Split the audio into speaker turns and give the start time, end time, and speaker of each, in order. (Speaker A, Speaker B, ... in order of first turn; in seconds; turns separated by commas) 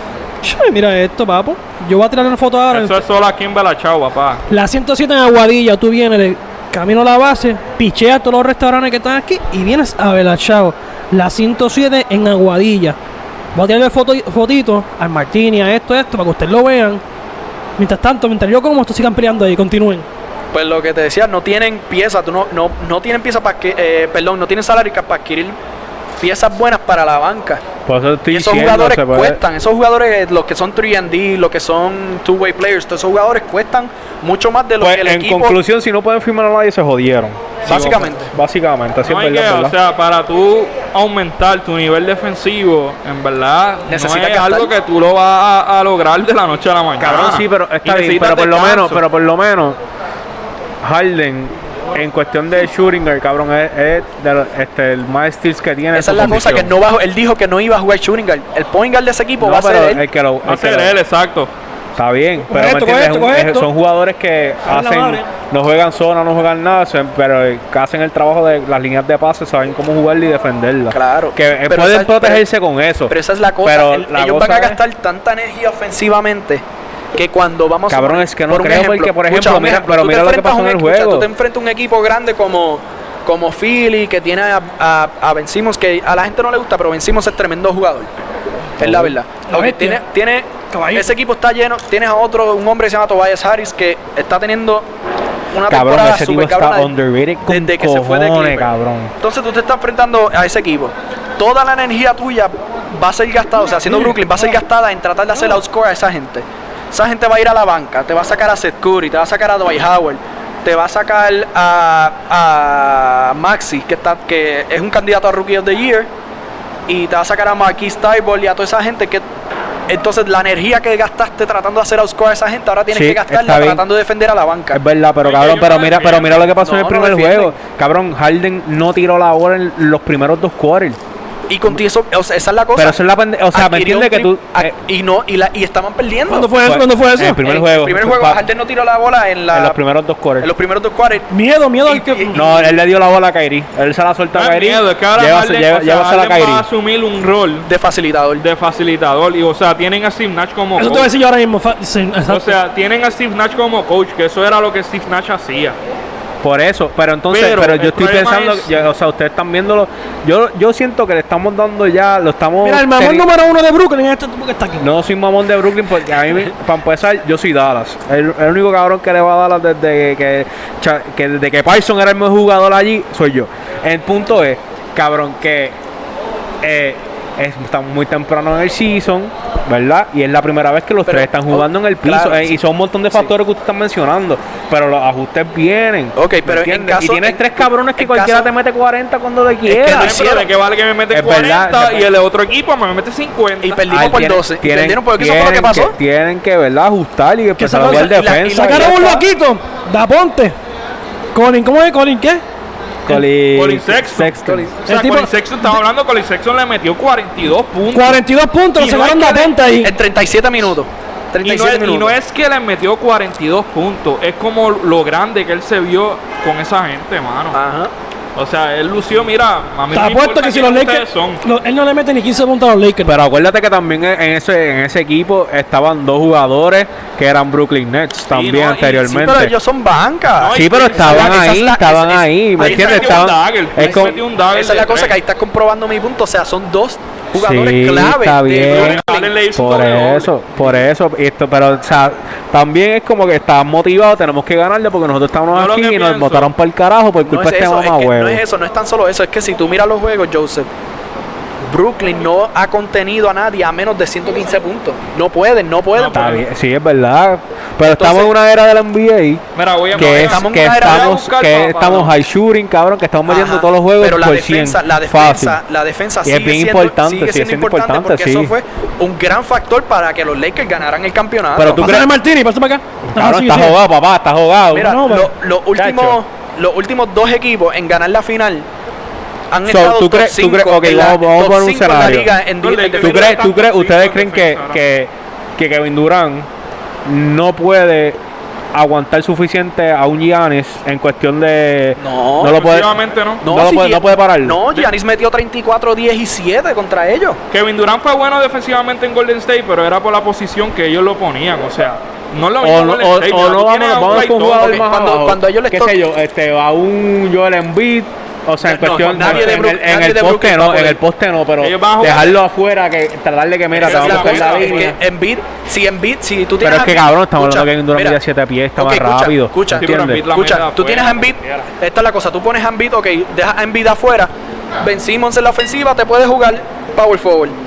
Speaker A: 0.4-3.0, Speaker B: 2.7-4.4, Speaker A: 4.5-13.0, Speaker A: 13.5-17.0, Speaker A: 17.8-20.1, Speaker C: 20.5-25.6, Speaker C: 26.2-27.6, Speaker D: 27.9-29.4, Speaker C: 28.3-35.5, Speaker D: 34.8-39.7, Speaker C: 37.6-38.3, Speaker B: 39.0-49.0, Speaker C: 43.9-44.7, Speaker D: 47.0-49.8, Speaker D: 50.8-56.7, Speaker C: 55.9-60.0, Speaker D: 59.4-61.0, Speaker B: 60.5-61.5, Speaker D: 62.0-74.8, Speaker A: 62.5-63.7, Speaker A: 64.7-65.3, Speaker C: 70.9-72.4, Speaker C: 73.1-76.6, Speaker C: 77.1-88.1, Speaker D: 77.9-81.3, Speaker C: 88.8-94.9, Speaker D: 88.8-89.2, Speaker A: 89.5-90.0, Speaker A: 90.7-91.1, Speaker C: 95.5-96.9, Speaker D: 95.7-99.1, Speaker C: 97.5-116.1, Speaker C: 116.9-119.2, Speaker C: 119.9-124.8, Speaker D: 122.9-123.8, Speaker D: 124.7-131.0, Speaker B: 125.2-126.5, Speaker C: 126.5-127.5, Speaker C: 131.5-133.0, Speaker D: 132.7-134.7, Speaker C: 133.5-136.6, Speaker A: 136.3-137.4, Speaker D: 136.6-138.4, Speaker C: 137.4-139.8, Speaker D: 139.5-140.5, Speaker C: 140.4-141.3, Speaker A: 141.3-142.4, Speaker C: 141.8-142.7, Speaker D: 142.3-146.7, Speaker B: 144.3-147.7, Speaker C: 147.7-148.4, Speaker B: 148.4-151.1, Speaker A: 150.8-152.6, Speaker B: 152.3-155.8, Speaker D: 156.4-163.3, Speaker B: 157.3-158.7, Speaker A: 162.6-164.9, Speaker D: 164.8-175.8, Speaker D: 176.6-190.2, Speaker C: 181.1-182.6, Speaker C: 186.2-188.5, Speaker C: 189.7-190.5, Speaker B: 189.9-194.0, Speaker D: 191.1-192.1, Speaker C: 193.6-195.9, Speaker D: 193.9-199.0, Speaker A: 197.6-200.5, Speaker C: 197.8-199.2, Speaker A: 201.3-202.4, Speaker D: 203.0-204.7, Speaker B: 203.5-208.2, Speaker C: 204.4-204.7, Speaker A: 204.8-205.3, Speaker A: 207.9-209.9, Speaker B: 208.8-209.4, Speaker C: 208.9-212.1, Speaker B: 211.4-217.6, Speaker C: 217.5-217.9, Speaker B: 218.3-221.4, Speaker A: 219.9-223.2, Speaker D: 223.0-229.5, Speaker B: 228.3-229.1, Speaker C: 229.0-233.3, Speaker B: 230.4-231.6, Speaker D: 230.5-234.2, Speaker B: 232.6-235.2, Speaker C: 233.8-239.3, Speaker D: 237.3-239.0, Speaker B: 238.7-240.5, Speaker D: 239.5-248.4, Speaker B: 245.5-246.5, Speaker C: 247.2-250.7, Speaker C: 251.6-256.4, Speaker B: 255.9-256.4, Speaker D: 256.1-259.4, Speaker C: 257.8-258.3, Speaker B: 259.5-262.1, Speaker C: 259.9-261.1, Speaker D: 259.9-265.6, Speaker C: 263.2-271.9, Speaker D: 266.2-268.5, Speaker D: 271.5-272.1, Speaker A: 271.8-273.8, Speaker D: 273.1-275.1, Speaker C: 274.7-278.7, Speaker A: 274.7-275.3, Speaker D: 275.8-276.2, Speaker C: 279.5-283.4, Speaker D: 279.6-282.3, Speaker B: 282.6-284.8, Speaker D: 283.0-286.5, Speaker D: 287.0-288.2, Speaker D: 288.7-294.6, Speaker C: 292.0-292.6, Speaker B: 292.4-293.4, Speaker C: 293.4-297.4, Speaker B: 297.5-304.8, Speaker D: 302.6-314.9, Speaker C: 304.5-305.9, Speaker C: 308.6-311.0, Speaker B: 309.0-309.6, Speaker B: 311.6-312.4, Speaker B: 313.7-314.9, Speaker C: 313.8-318.2, Speaker D: 316.6-320.2, Speaker C: 318.8-327.6, Speaker B: 319.7-321.7